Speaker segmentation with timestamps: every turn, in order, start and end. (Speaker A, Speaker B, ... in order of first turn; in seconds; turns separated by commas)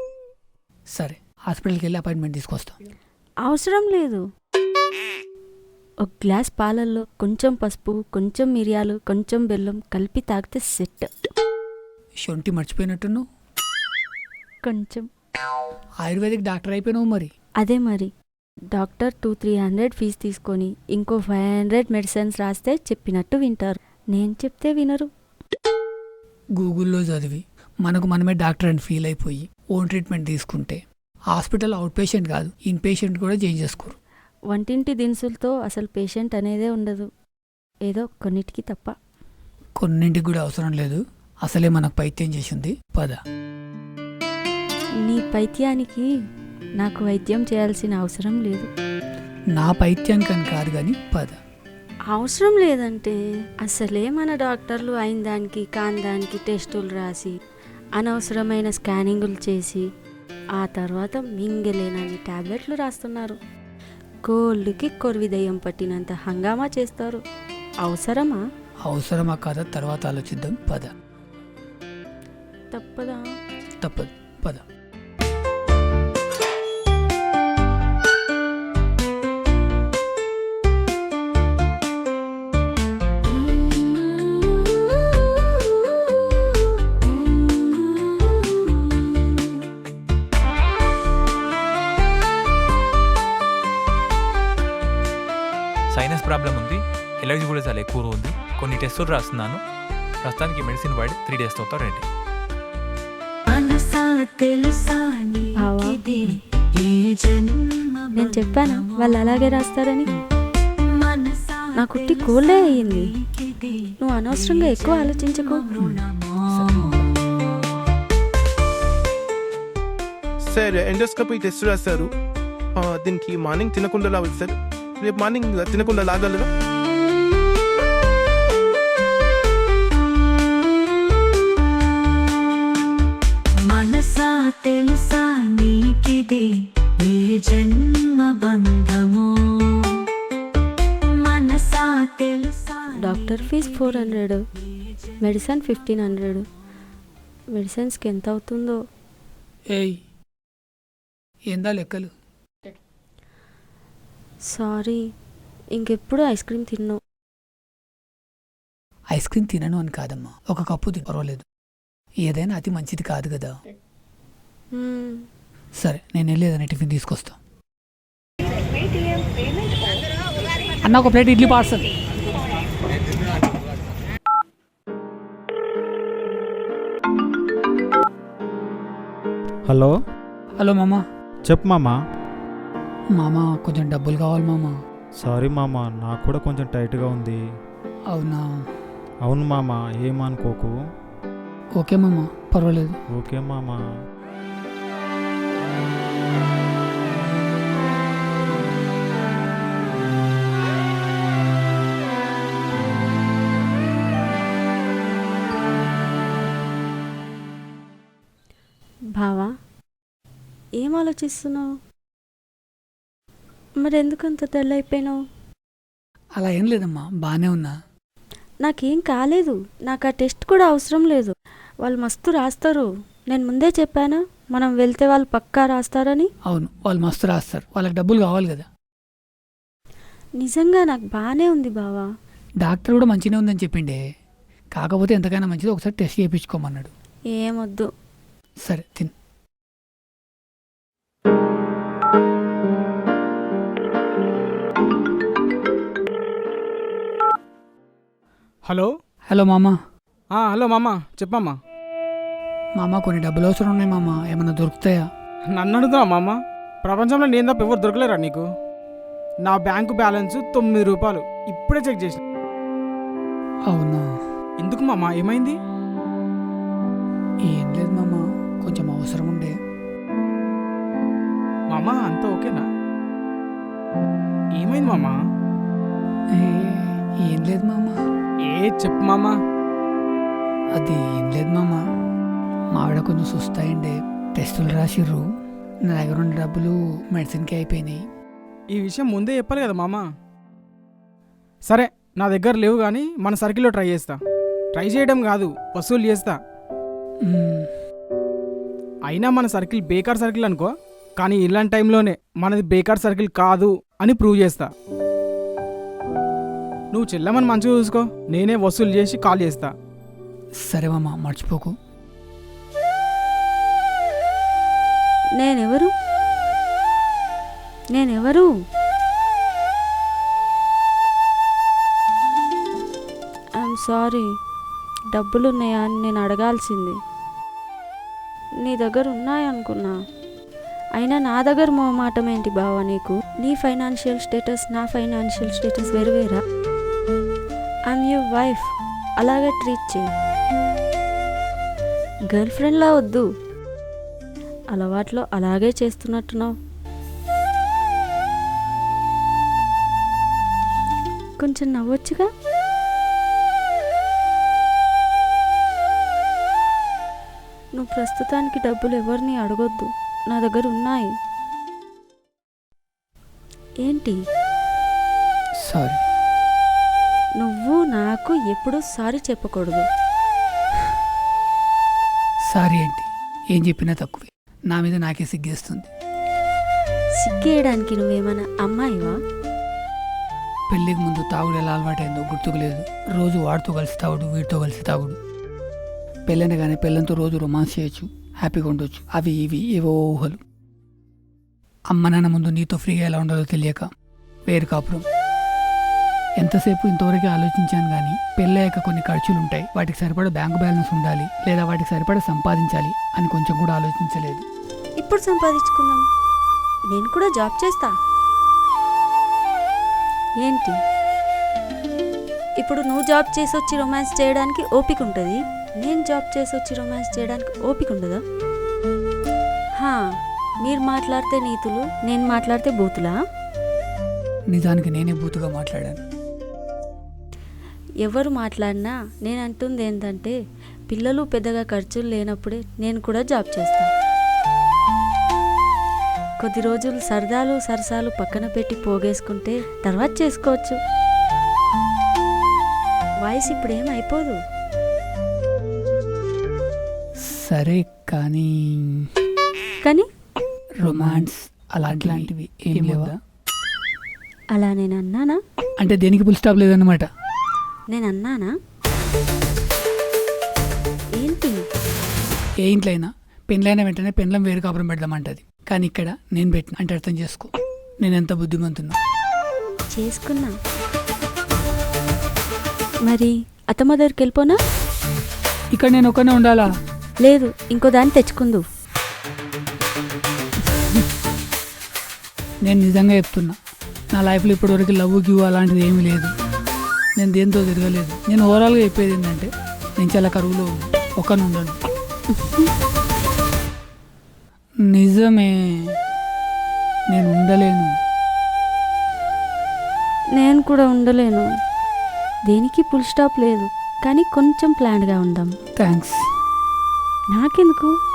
Speaker A: 1.0-2.8, Speaker B: 3.5-4.2, Speaker B: 6.0-11.1, Speaker A: 12.2-13.2, Speaker B: 14.6-15.1, Speaker A: 16.0-17.3, Speaker B: 17.6-18.1, Speaker B: 18.7-25.1, Speaker A: 26.6-30.8, Speaker A: 31.3-34.0, Speaker B: 34.5-37.1, Speaker B: 37.9-38.9, Speaker A: 39.8-43.2, Speaker B: 45.0-46.1, Speaker B: 46.8-48.7, Speaker A: 49.5-51.4, Speaker B: 52.1-57.3, Speaker B: 58.0-59.8, Speaker B: 60.6-63.4, Speaker B: 64.2-67.2, Speaker B: 67.8-68.4, Speaker A: 68.8-70.9, Speaker B: 72.7-73.2, Speaker A: 73.8-74.6, Speaker C: 95.9-99.6, Speaker C: 100.2-102.0, Speaker D: 103.5-108.7, Speaker B: 105.5-106.0, Speaker B: 108.1-110.1, Speaker D: 111.0-113.9, Speaker B: 111.7-113.1, Speaker B: 114.0-115.7, Speaker D: 115.7-117.0, Speaker A: 115.8-116.9, Speaker E: 120.4-122.1, Speaker E: 122.7-126.5, Speaker D: 133.7-140.0, Speaker D: 141.2-142.9, Speaker B: 142.9-144.4, Speaker B: 145.2-146.4, Speaker B: 147.5-148.8, Speaker A: 149.7-150.0, Speaker A: 151.5-152.1, Speaker B: 154.5-155.0, Speaker B: 155.7-157.0, Speaker A: 159.1-161.4, Speaker A: 162.2-163.5, Speaker B: 164.7-165.2, Speaker A: 165.8-167.4, Speaker A: 170.8-171.8, Speaker F: 179.7-179.9, Speaker A: 180.6-181.0, Speaker F: 181.5-181.9, Speaker A: 183.1-184.7, Speaker F: 185.2-187.4, Speaker A: 188.1-188.4, Speaker F: 189.2-190.7, Speaker A: 191.8-193.0, Speaker F: 193.1-193.8, Speaker B: 209.2-209.5, Speaker B: 210.8-211.7, Speaker B: 213.8-215.2, Speaker A: 216.4-217.7, Speaker B: 218.6-226.3, Speaker A: 226.4-228.7, Speaker B: 230.4-232.1, Speaker A: 232.6-234.0, Speaker A: 234.8-236.9, Speaker B: 237.3-237.9, Speaker A: 238.7-239.1, Speaker A: 249.3-249.8, Speaker G: 250.3-251.5, Speaker A: 252.8-255.1, Speaker G: 255.5-258.4, Speaker G: 259.5-262.2, Speaker A: 263.7-264.1, Speaker G: 264.6-265.6, Speaker A: 267.5-269.5, Speaker G: 271.7-272.6, Speaker G: 274.6-275.1, Speaker A: 276.3-278.0, Speaker G: 278.4-279.4, Speaker A: 280.8-281.8, Speaker A: 282.7-285.2, Speaker A: 285.9-288.0, Speaker G: 288.8-290.0, Speaker G: 291.7-294.2, Speaker G: 294.8-296.3, Speaker A: 297.2-297.7, Speaker G: 299.1-300.7, Speaker G: 301.2-304.7, Speaker G: 306.9-309.7, Speaker A: 310.6-311.7, Speaker B: 315.4-315.9, Speaker B: 317.9-318.5, Speaker B: 323.6-324.3, Speaker B: 325.1-327.0, Speaker B: 328.6-329.9, Speaker B: 331.0-336.4, Speaker B: 337.9-340.0, Speaker B: 342.3-343.2, Speaker B: 344.7-346.5, Speaker B: 351.4-352.3, Speaker B: 357.8-361.1, Speaker B: 363.8-364.2, Speaker A: 365.6-366.0, Speaker B: 367.4-369.8, Speaker A: 372.5-375.9, Speaker B: 377.2-379.1, Speaker A: 380.7-385.2, Speaker A: 386.3-390.4, Speaker A: 391.9-393.9, Speaker A: 394.5-395.0, Speaker A: 396.4-404.4, Speaker B: 405.0-406.0, Speaker B: 406.9-407.9, Speaker B: 410.4-410.8, Speaker B: 412.6-418.2, Speaker B: 420.6-423.1, Speaker A: 424.5-426.0, Speaker B: 428.0-430.3, Speaker B: 430.9-433.9, Speaker B: 436.4-440.8, Speaker B: 443.2-444.4, Speaker A: 447.3-449.1, Speaker A: 450.8-453.1, Speaker F: 450.9-451.2, Speaker F: 451.9-453.1, Speaker B: 454.5-455.4, Speaker A: 455.8-457.1, Speaker B: 457.9-458.5, Speaker B: 461.2-461.6, Speaker A: 462.6-469.0, Speaker B: 469.9-470.5, Speaker B: 473.1-474.6, Speaker A: 475.7-476.7, Speaker B: 477.2-478.6, Speaker A: 482.6-483.6, Speaker A: 484.1-486.3, Speaker A: 487.2-491.8, Speaker B: 492.3-492.7, Speaker A: 494.9-495.9, Speaker A: 497.1-497.9, Speaker B: 500.4-501.5, Speaker B: 502.5-505.5, Speaker A: 505.8-506.2, Speaker B: 507.3-507.9